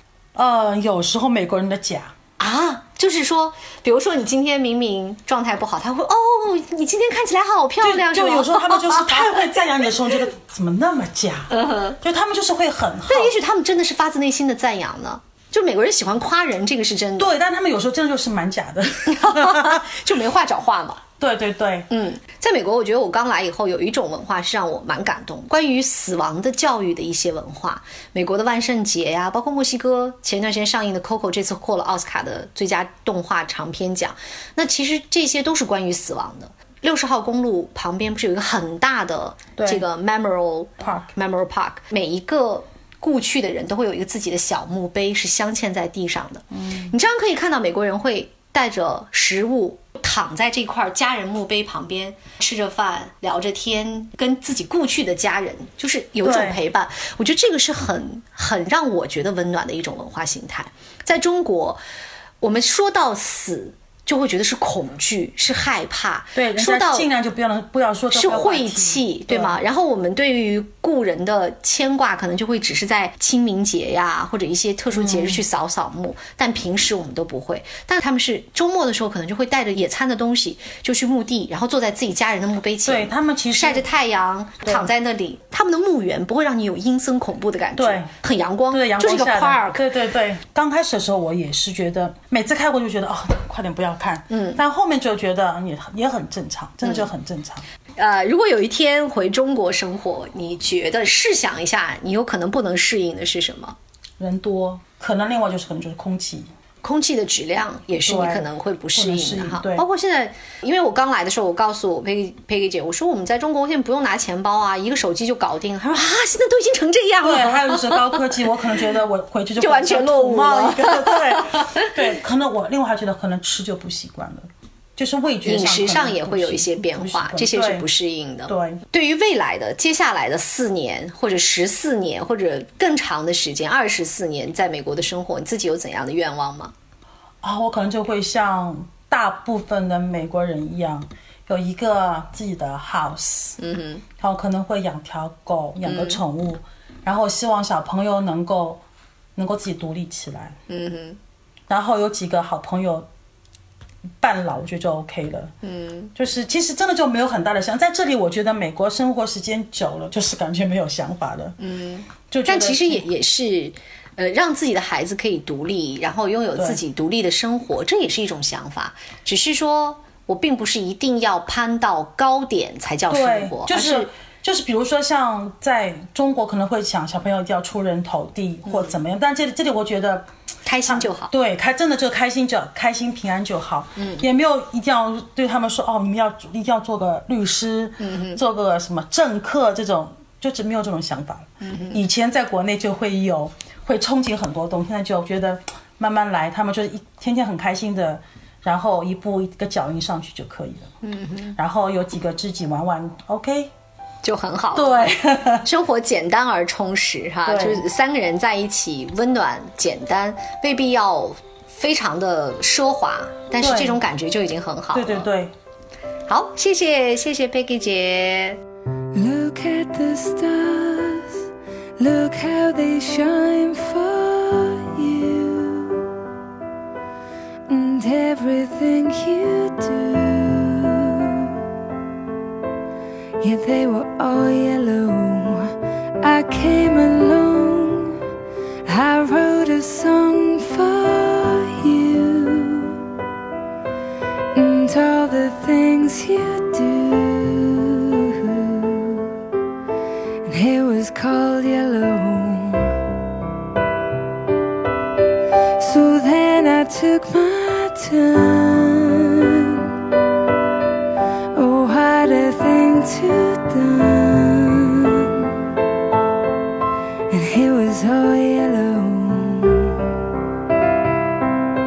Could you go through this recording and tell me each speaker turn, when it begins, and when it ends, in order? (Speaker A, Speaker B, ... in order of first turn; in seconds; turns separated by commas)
Speaker A: 0.3-2.1, Speaker B: 2.4-9.6, Speaker A: 7.8-13.4, Speaker B: 11.5-12.0, Speaker B: 13.1-17.3, Speaker A: 17.2-20.0, Speaker B: 19.1-21.0, Speaker A: 21.2-21.9, Speaker B: 21.9-61.8, Speaker A: 39.6-39.8, Speaker A: 40.8-41.1, Speaker A: 46.5-47.0, Speaker A: 56.2-56.6, Speaker B: 62.4-67.1, Speaker A: 66.3-69.6, Speaker B: 68.1-89.8, Speaker A: 74.9-75.4, Speaker A: 82.8-83.9, Speaker A: 84.6-84.9, Speaker A: 87.8-88.1, Speaker A: 88.7-97.6, Speaker B: 94.3-94.6, Speaker B: 96.8-97.1, Speaker B: 98.0-103.8, Speaker A: 104.2-106.5, Speaker B: 106.8-118.3, Speaker A: 108.0-109.8, Speaker A: 117.2-127.9, Speaker B: 119.6-122.0, Speaker B: 125.5-136.7, Speaker A: 128.5-128.8, Speaker A: 137.4-143.6, Speaker B: 143.6-144.0, Speaker A: 144.2-148.8, Speaker B: 145.8-146.2, Speaker A: 149.4-150.6, Speaker B: 150.7-151.2, Speaker A: 151.7-153.1, Speaker A: 154.2-155.5, Speaker B: 155.6-156.1, Speaker A: 156.1-161.6, Speaker B: 161.6-174.1, Speaker A: 162.3-163.1, Speaker A: 166.6-166.8, Speaker A: 173.1-180.3, Speaker B: 178.6-179.0, Speaker B: 180.6-181.3, Speaker A: 180.9-200.9, Speaker B: 184.0-184.2, Speaker B: 188.0-188.4, Speaker B: 191.6-192.0, Speaker B: 201.0-201.6, Speaker A: 201.6-203.7, Speaker B: 204.2-215.2, Speaker A: 204.7-205.7, Speaker A: 207.4-207.8, Speaker A: 213.6-214.0, Speaker A: 214.9-215.5, Speaker B: 216.3-218.6, Speaker C: 219.1-221.4, Speaker C: 222.0-226.1, Speaker C: 227.7-231.6, Speaker C: 233.4-238.2, Speaker C: 238.9-243.0, Speaker C: 244.5-249.3, Speaker C: 250.4-252.9, Speaker C: 255.8-259.9, Speaker C: 261.5-265.6, Speaker C: 267.3-270.1